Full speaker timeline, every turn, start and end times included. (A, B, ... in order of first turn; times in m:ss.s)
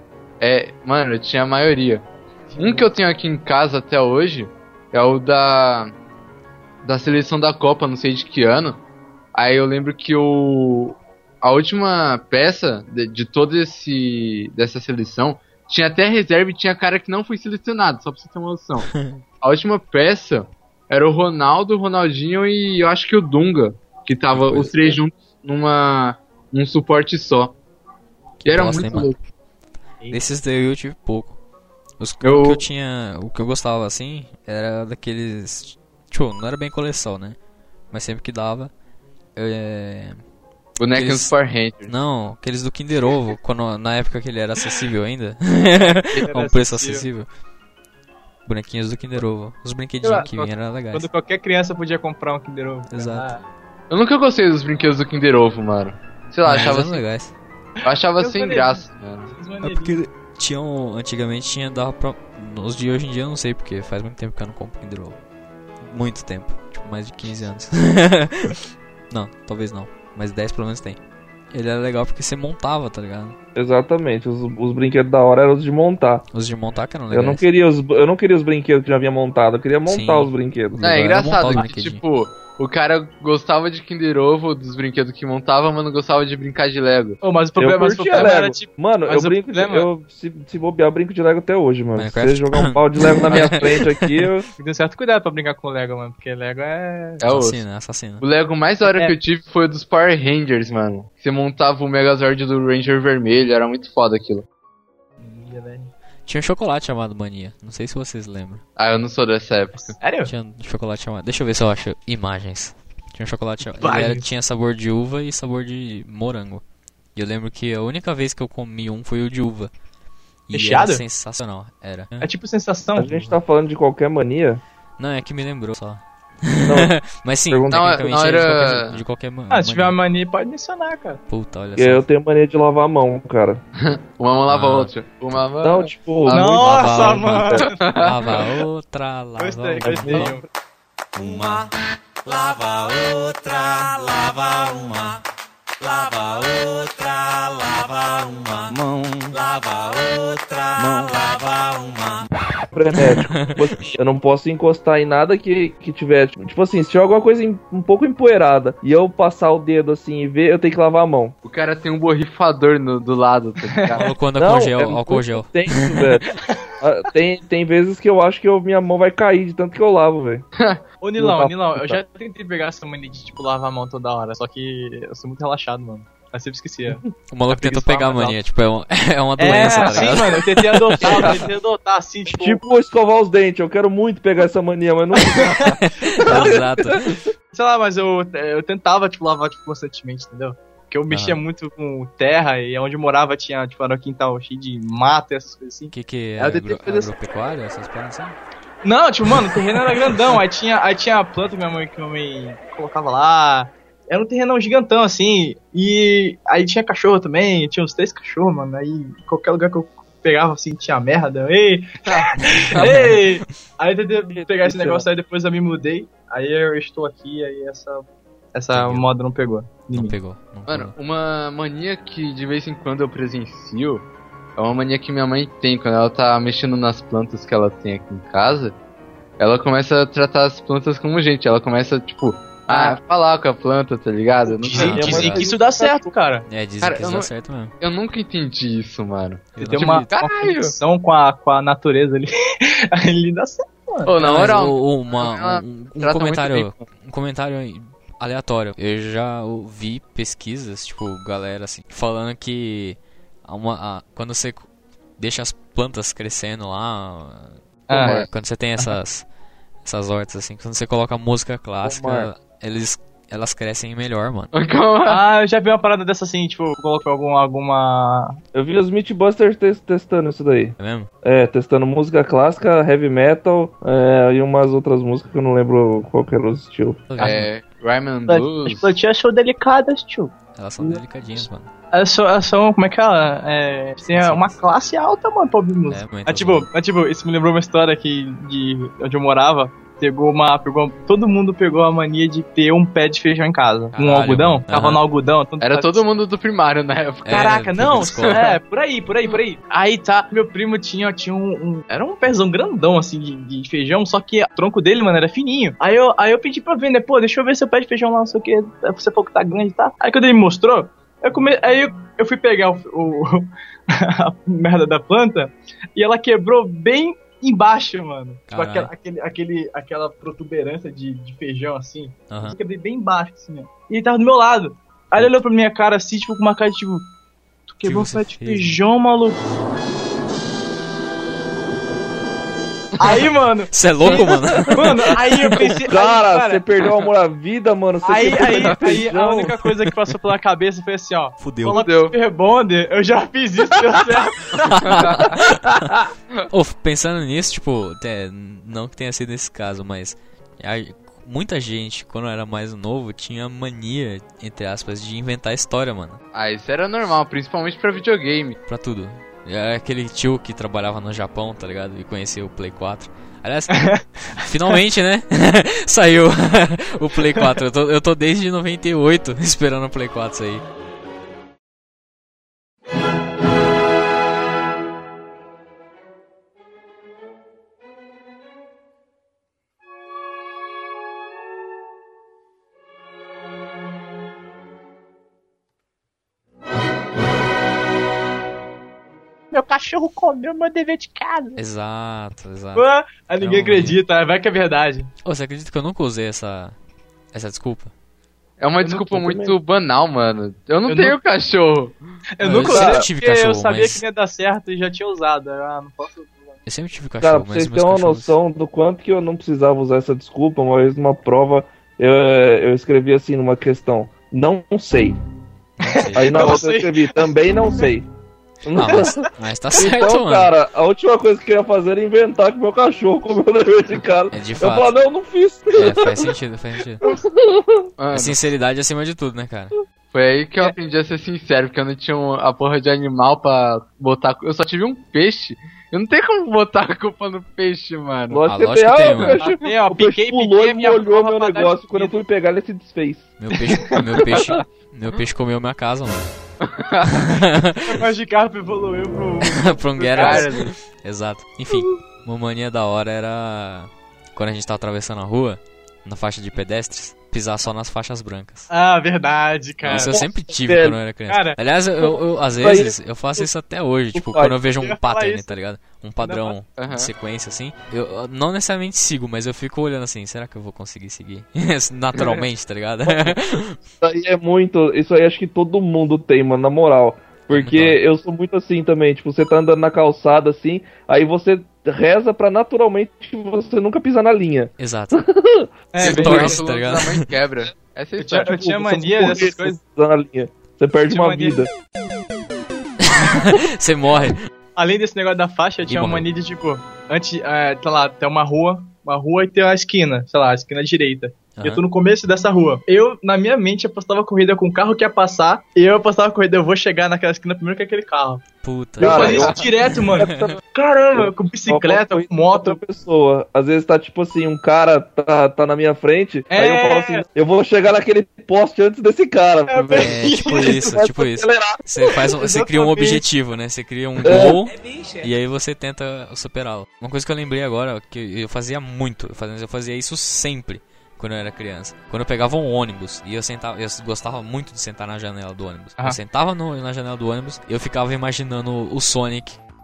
0:00.4-0:02.0 A
0:02.5-0:02.9 B
0:02.6-0:05.9 A
0:06.8-0:08.8 A
0:09.3-0:27.6 A
0:18.8-0:19.2 C
0:24.3-0:25.0 C
0:28.4-0:29.1 C
0:28.4-0:29.2 A
0:30.1-0:31.4 C
0:32.0-0:37.4 C
0:32.2-0:32.6 A
0:37.9-0:38.7 C
0:39.4-0:40.2 C
0:40.8-0:41.9 A
0:40.9-0:41.4 C
0:41.9-0:47.3 C
0:46.2-0:47.1 B
0:48.4-0:51.1 C
0:50.0-0:53.4 B
0:52.9-0:53.3 C
0:53.9-0:57.0 A
0:56.4-0:57.3 C
0:57.8-1:00.0 B
0:57.8-0:59.3 A
0:59.6-1:05.2 C
1:05.8-1:08.6 C
1:09.1-1:11.0 C
1:11.5-1:13.4 C
1:13.5-1:16.2 D
1:16.3-1:17.4 C
1:17.1-1:21.0 D
1:19.9-1:22.0 C
1:20.8-1:27.2 A
1:27.2-1:29.9 B
1:27.6-1:34.5 D
1:32.0-1:34.3 C
1:34.6-1:37.2 B
1:37.2-1:37.6 A
1:37.2-1:38.2 C
1:38.2-1:44.4 A
1:38.8-1:39.1 B
1:45.2-1:45.9 B
1:46.2-1:48.6 C
1:48.8-1:50.0 A
1:49.7-1:50.3 B
1:50.2-1:56.6 C
1:53.8-1:54.2 B
1:57.1-1:59.7 C
2:00.5-2:02.3 C
2:00.5-2:01.0 B
2:02.2-2:03.2 B
2:03.0-2:04.6 D
2:03.0-2:03.3 C
2:05.0-2:10.0 C
2:06.6-2:06.9 D
2:07.5-2:08.0 D
2:07.7-2:09.0 A
2:09.5-2:11.2 B
2:11.3-2:12.0 C
2:11.8-2:13.6 D
2:13.8-2:18.4 A
2:14.5-2:14.9 C
2:15.6-2:16.5 D
2:16.3-2:18.4 B
2:16.4-2:20.4 C
2:19.4-2:20.4 B
2:19.8-2:20.4 D
2:21.2-2:21.6 C
2:22.6-2:25.1 E
2:25.9-2:28.6 E
2:29.4-2:30.5 E
2:31.1-2:32.2 E
2:32.7-2:41.3 D
2:32.9-2:33.9 C
2:41.4-2:44.1 A
2:43.7-2:44.1 B
2:44.0-2:46.0 C
2:44.4-2:50.4 D
2:50.6-2:50.8 A
2:51.0-2:58.4 B
2:51.2-2:52.0 D
2:57.3-3:01.4 C
2:59.4-3:02.6 B
2:59.7-3:00.2 A
3:01.0-3:01.5 D
3:02.3-3:07.2 D
3:05.1-3:06.5 B
3:05.8-3:07.2 C
3:07.5-3:17.1 B
3:11.1-3:11.4 C
3:15.9-3:18.4 C
3:18.8-3:40.1 B
3:32.1-3:32.9 A
3:32.6-3:33.2 C
3:34.3-3:35.0 D
3:38.7-3:39.1 C
3:39.9-3:40.9 C
3:40.7-3:48.7 A
3:49.4-3:55.4 A
3:52.7-3:53.0 B
3:54.6-3:56.4 B
3:54.7-3:55.4 C
3:54.8-3:56.0 D
3:56.5-3:57.7 C
3:56.8-4:00.7 A
3:59.6-4:00.1 C
3:59.6-4:04.1 B
4:04.0-4:06.8 A
4:04.2-4:19.2 C
4:17.9-4:18.2 B
4:17.9-4:18.3 A
4:19.8-4:24.5 C
4:21.8-4:22.3 D
4:24.5-4:25.2 A
4:25.0-4:28.4 B
4:28.5-4:37.0 D
4:30.8-4:31.1 C
4:37.1-4:37.5 C
4:37.2-4:38.9 A
4:38.3-4:56.0 B
4:40.6-4:41.7 C
4:44.1-4:44.5 C
4:45.9-4:46.7 C
4:53.9-4:55.0 C
4:55.6-4:57.5 A
4:57.2-4:58.4 C
4:57.3-5:27.1 B
5:18.5-5:18.9 C
5:22.3-5:22.6 C
5:27.7-5:29.4 B
5:27.8-5:28.8 C
5:33.0-5:36.6 B
5:33.7-5:35.8 C
5:34.1-5:34.9 D
5:35.7-5:39.7 D
5:38.0-5:45.2 B
5:41.4-5:41.8 C
5:41.7-5:42.1 A
5:44.5-5:45.4 A
5:44.6-5:56.2 C
5:56.3-5:58.6 A
5:58.7-6:10.6 C
6:03.7-6:04.0 B
6:29.5-6:31.6 B
6:31.6-6:32.8 C
6:32.8-6:35.1 B
6:33.4-6:34.0 C
6:35.2-6:36.7 C
6:37.3-6:37.9 C
6:38.6-6:42.0 A
6:38.8-6:39.1 B
6:39.1-6:39.5 D
6:40.8-6:41.2 B
6:42.4-6:46.6 B
6:42.4-6:44.0 C
6:42.6-6:43.1 D
6:46.6-6:48.4 C
6:47.2-6:55.2 D
6:55.8-6:56.6 C
6:55.8-6:57.8 B
6:56.1-6:58.1 D
6:58.6-6:59.2 D
6:58.8-7:00.5 C
6:59.7-7:06.3 D
7:04.3-7:04.9 C
7:05.7-7:07.0 C
7:07.0-7:07.9 D
7:08.0-7:08.4 A
7:08.1-7:09.8 C
7:10.1-7:18.4 A
7:18.3-7:23.3 D
7:18.5-7:19.4 C
7:19.4-7:22.2 B
7:23.4-7:26.3 C
7:24.3-7:24.6 A
7:26.6-7:27.4 A
7:27.1-7:28.0 C
7:27.8-7:30.5 B
7:29.4-7:38.7 C
7:30.1-7:30.7 A
7:38.7-7:40.2 B
7:39.8-7:53.8 C
7:40.1-7:41.0 D
7:41.3-7:41.6 B
7:42.0-7:43.5 D
7:44.1-7:44.6 D
7:44.8-7:45.6 B
7:46.2-7:46.5 B
7:46.8-7:47.1 A
7:52.1-7:52.4 A
7:54.0-8:05.7 D
7:57.5-7:58.0 C
8:04.8-8:05.2 C
8:05.9-8:06.6 B
8:06.0-8:07.3 C
8:06.0-8:08.6 A
8:08.2-8:09.8 B
8:08.4-8:11.7 D
8:11.1-8:11.6 B
8:13.0-8:14.4 C
8:14.8-8:28.4 B
8:15.8-8:16.2 C
8:21.5-8:21.8 C
8:28.6-8:30.4 C
8:29.0-8:32.8 B
8:29.0-8:30.6 D
8:29.1-8:29.5 A
8:31.1-8:41.8 D
8:36.5-8:37.2 B
8:39.7-8:41.0 B
8:40.0-8:59.6 C
8:42.0-8:43.2 B
8:44.2-8:44.6 D